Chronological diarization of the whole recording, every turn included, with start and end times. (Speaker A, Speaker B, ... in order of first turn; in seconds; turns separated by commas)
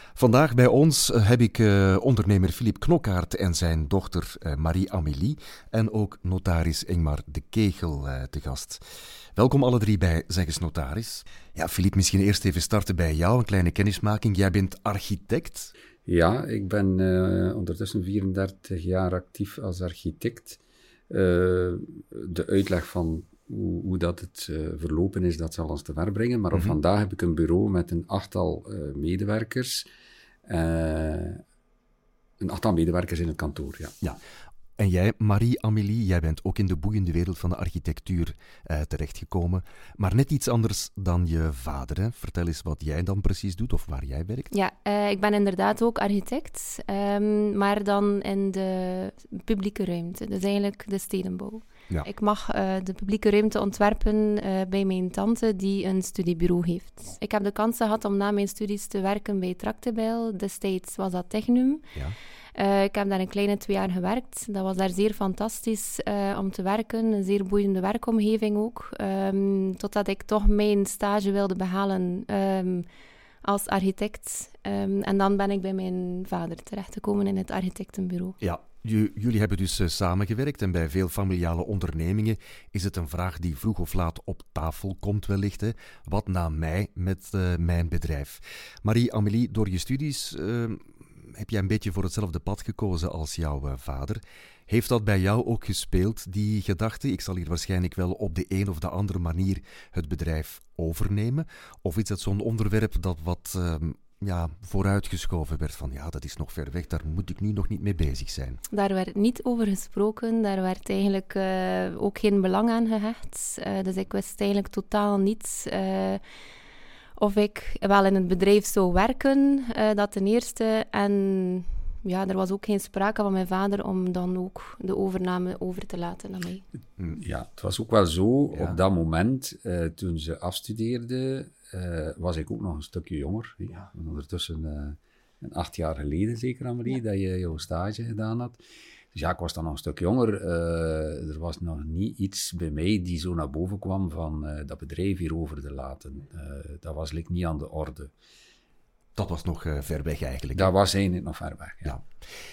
Speaker A: 0.1-8.8, Speaker A: 9.3-15.7, Speaker B: 16.1-20.6, Speaker B: 21.1-29.8, Speaker B: 30.5-31.4, Speaker B: 32.4-33.9, Speaker A: 34.8-44.5, Speaker C: 44.5-61.8, Speaker C: 62.5-72.9, Speaker C: 73.4-78.3, Speaker A: 78.4-108.6, Speaker C: 108.7-116.2, Speaker C: 117.2-126.6, Speaker B: 127.1-138.6, Speaker B: 139.1-148.1, Speaker A: 149.2-150.7, Speaker B: 150.5-152.0